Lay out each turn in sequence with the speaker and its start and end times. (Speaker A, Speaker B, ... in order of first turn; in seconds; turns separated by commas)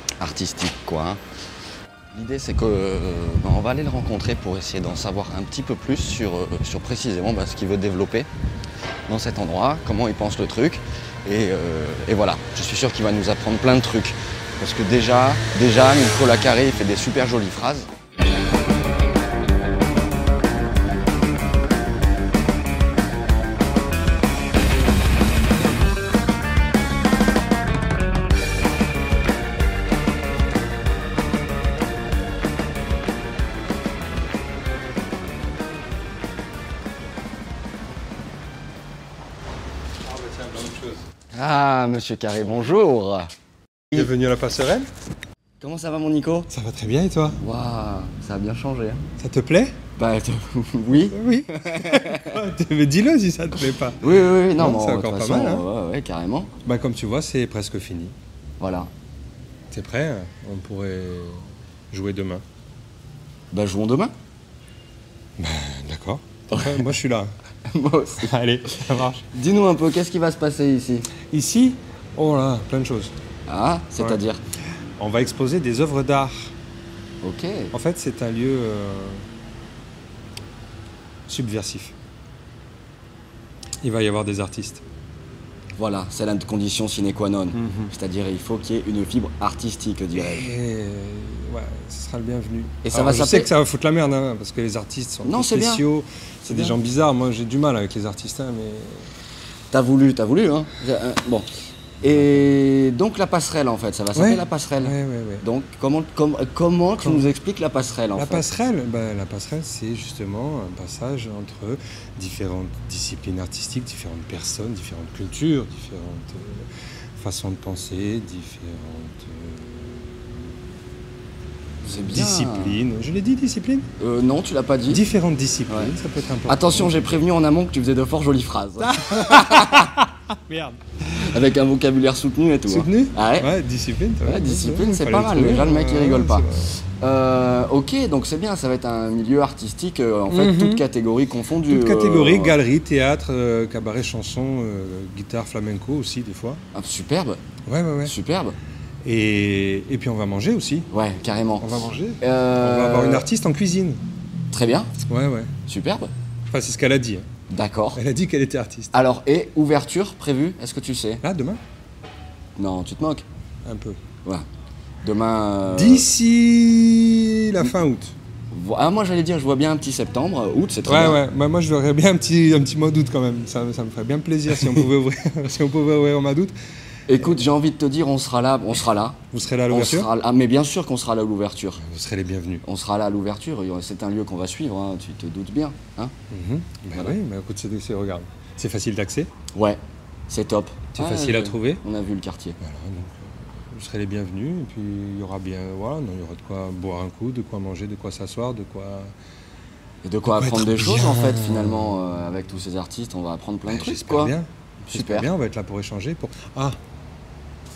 Speaker A: 0.2-1.2, Speaker A: 2.1-8.3, Speaker A: 9.1-17.9, Speaker B: 40.0-41.0, Speaker A: 41.3-43.3, Speaker B: 43.9-44.9, Speaker A: 45.6-46.5, Speaker B: 46.5-47.4, Speaker A: 47.4-49.0, Speaker B: 49.2-49.7, Speaker A: 50.0-52.4, Speaker B: 50.9-55.6, Speaker A: 54.0-56.5, Speaker B: 56.6-58.1, Speaker A: 58.6-58.9, Speaker B: 59.7-62.4, Speaker A: 63.5-64.1, Speaker B: 65.4-67.3, Speaker A: 66.5-66.8, Speaker A: 67.7-68.3, Speaker B: 68.2-69.3, Speaker A: 69.3-71.1, Speaker B: 71.3-73.1, Speaker A: 73.5-74.4, Speaker B: 75.0-76.5, Speaker A: 77.2-77.7, Speaker B: 77.7-79.2, Speaker B: 81.3-81.9, Speaker B: 83.8-84.8, Speaker A: 85.8-90.5, Speaker B: 87.5-87.9, Speaker B: 90.1-99.1, Speaker A: 92.8-93.5, Speaker A: 95.2-95.8, Speaker A: 96.4-96.8, Speaker A: 99.7-101.5, Speaker A: 102.0-108.5, Speaker B: 104.1-105.4, Speaker B: 107.0-107.3, Speaker B: 108.2-120.4, Speaker A: 121.8-122.8, Speaker B: 121.9-123.9, Speaker A: 124.0-125.0, Speaker B: 124.9-127.2, Speaker A: 126.5-129.9, Speaker B: 128.8-130.8, Speaker A: 131.1-133.5, Speaker B: 132.7-136.8, Speaker A: 134.2-142.6, Speaker B: 140.3-140.8, Speaker B: 141.7-146.6, Speaker A: 146.7-147.4, Speaker B: 147.7-148.1, Speaker A: 148.0-148.6, Speaker B: 149.0-150.9, Speaker A: 150.9-153.3, Speaker B: 151.6-154.0, Speaker A: 154.5-154.9, Speaker B: 155.1-155.5, Speaker A: 155.7-156.1, Speaker B: 156.5-157.2, Speaker A: 157.5-158.0, Speaker B: 157.9-158.9, Speaker A: 158.9-161.2, Speaker B: 161.2-161.6, Speaker A: 162.6-163.2, Speaker B: 163.6-164.0, Speaker A: 165.0-166.1, Speaker B: 165.7-168.1, Speaker A: 168.5-171.2, Speaker B: 170.9-176.5, Speaker A: 177.1-179.2, Speaker B: 179.3-180.1, Speaker A: 179.7-181.8, Speaker B: 181.8-182.6, Speaker A: 182.6-186.1, Speaker B: 186.3-189.3, Speaker A: 189.5-192.6, Speaker B: 190.9-191.8, Speaker B: 192.6-199.1, Speaker A: 200.0-205.3, Speaker B: 200.3-201.9, Speaker B: 203.7-206.8